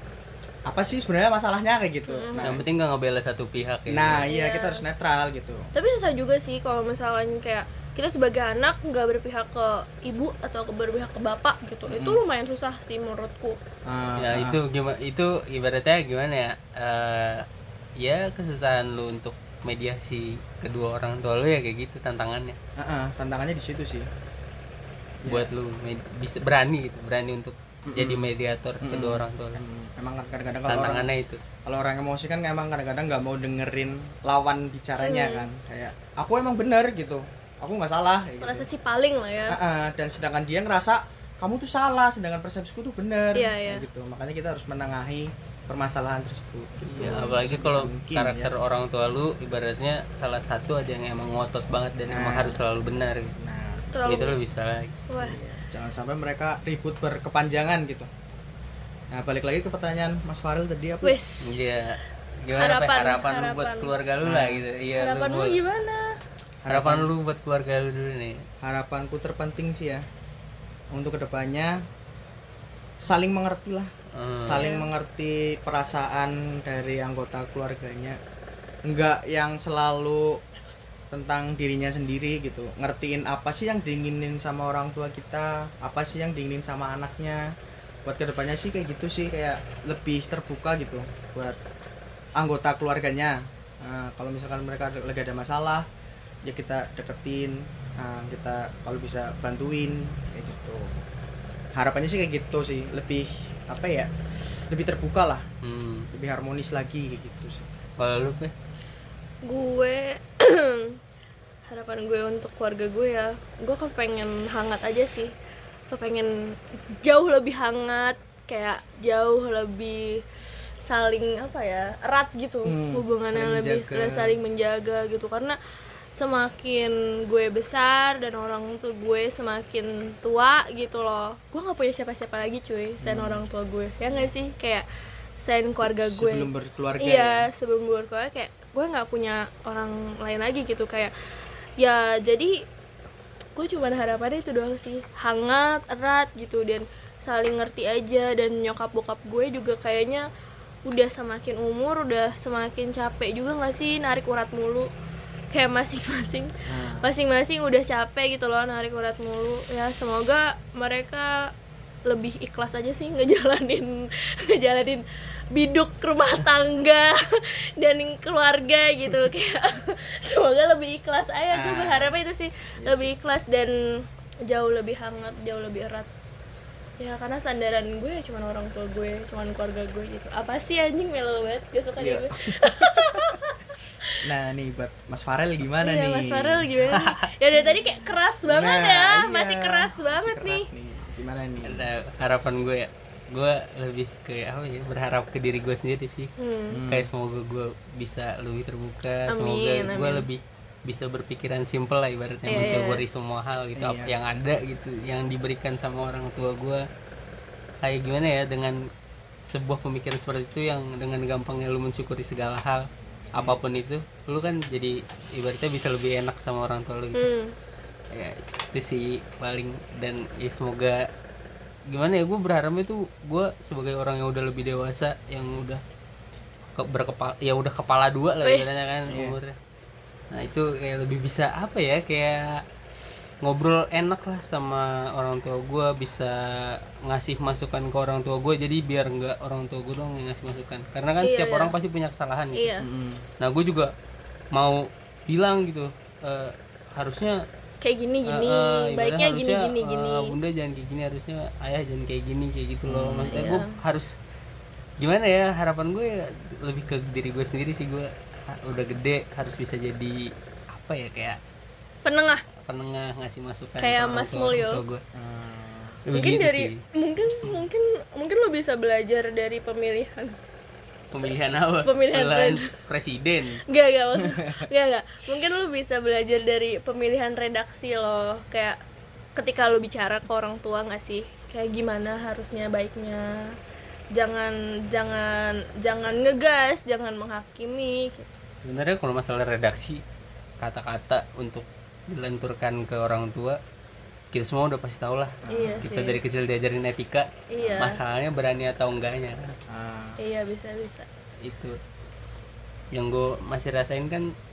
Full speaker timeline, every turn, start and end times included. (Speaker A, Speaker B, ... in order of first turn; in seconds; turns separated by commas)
Speaker A: 0.7-2.6, Speaker B: 2.1-2.6, Speaker C: 2.4-4.3, Speaker A: 3.9-5.7, Speaker B: 4.2-4.8, Speaker B: 5.8-13.6, Speaker A: 11.9-12.2, Speaker A: 13.9-14.6, Speaker C: 14.2-17.5, Speaker C: 18.0-22.6, Speaker A: 22.8-24.1, Speaker A: 25.2-25.5, Speaker C: 25.3-29.6, Speaker A: 27.9-28.3, Speaker A: 28.8-31.1, Speaker C: 30.7-31.4, Speaker A: 31.7-38.7, Speaker B: 35.0-35.5, Speaker B: 38.4-39.6, Speaker A: 39.5-48.5, Speaker B: 43.3-43.9, Speaker C: 46.9-53.4, Speaker B: 47.0-47.4, Speaker A: 52.1-52.6, Speaker A: 53.4-54.0, Speaker B: 53.9-54.4, Speaker C: 54.0-55.0, Speaker B: 55.1-55.4, Speaker A: 55.2-58.1, Speaker A: 59.1-61.2, Speaker B: 61.0-61.5, Speaker C: 61.4-65.6, Speaker B: 62.6-63.9, Speaker A: 64.2-64.6, Speaker B: 65.0-66.1, Speaker A: 66.6-67.1, Speaker C: 66.7-68.4, Speaker A: 68.6-70.0, Speaker A: 70.9-71.8, Speaker A: 73.0-78.2, Speaker C: 74.1-74.7, Speaker B: 74.5-74.9, Speaker A: 78.8-80.4, Speaker A: 81.1-87.5, Speaker A: 88.0-91.6, Speaker A: 92.4-95.9, Speaker A: 96.4-101.0, Speaker A: 101.8-104.1, Speaker A: 104.7-105.5, Speaker C: 105.6-106.1, Speaker A: 106.1-107.7, Speaker C: 108.0-108.5, Speaker B: 109.4-111.0, Speaker B: 111.7-115.3, Speaker B: 115.9-120.2, Speaker B: 120.8-125.6, Speaker A: 122.7-124.4, Speaker B: 126.2-134.8, Speaker A: 133.0-133.4, Speaker A: 134.1-134.3, Speaker B: 135.4-141.1, Speaker A: 135.8-137.5, Speaker B: 141.8-142.6, Speaker B: 143.6-150.3, Speaker B: 150.9-154.9, Speaker B: 155.5-161.5, Speaker A: 156.7-157.1, Speaker B: 162.1-176.1, Speaker A: 171.5-172.2, Speaker A: 172.8-173.1, Speaker B: 177.0-184.2, Speaker A: 182.0-183.4, Speaker A: 184.2-186.8, Speaker B: 185.8-190.7, Speaker C: 186.9-187.2, Speaker A: 187.6-187.8, Speaker A: 188.5-191.8, Speaker C: 191.7-196.3, Speaker B: 196.4-196.8, Speaker A: 196.7-197.1, Speaker C: 196.9-206.9, Speaker B: 199.3-200.3, Speaker B: 202.5-203.0, Speaker A: 203.8-204.1, Speaker C: 207.8-208.8, Speaker C: 209.5-217.3, Speaker B: 217.2-217.6, Speaker C: 218.1-221.1, Speaker C: 221.9-225.8, Speaker C: 226.8-229.6, Speaker B: 228.4-229.0, Speaker A: 229.1-229.4, Speaker C: 230.3-232.6, Speaker C: 233.4-242.7, Speaker B: 241.2-241.7, Speaker B: 242.6-242.9, Speaker A: 242.8-243.2, Speaker C: 243.4-243.9, Speaker C: 244.5-247.4, Speaker B: 247.8-250.4, Speaker C: 248.3-254.1, Speaker A: 252.9-253.5, Speaker B: 253.3-253.8, Speaker C: 255.0-261.4, Speaker B: 262.1-262.4, Speaker C: 262.6-265.0, Speaker B: 263.8-264.8, Speaker A: 265.1-266.0, Speaker C: 266.1-266.8, Speaker B: 266.1-270.4, Speaker C: 271.1-273.6, Speaker B: 271.9-272.7, Speaker B: 273.7-278.8, Speaker A: 274.2-274.6, Speaker B: 279.4-283.5, Speaker B: 284.1-288.3, Speaker C: 288.6-290.0, Speaker C: 290.6-293.6, Speaker C: 294.3-299.6, Speaker A: 295.4-295.8, Speaker B: 295.5-296.2, Speaker B: 297.5-298.0, Speaker A: 297.6-297.9, Speaker A: 299.7-300.2, Speaker B: 300.2-301.1, Speaker C: 301.4-301.8, Speaker C: 302.9-304.3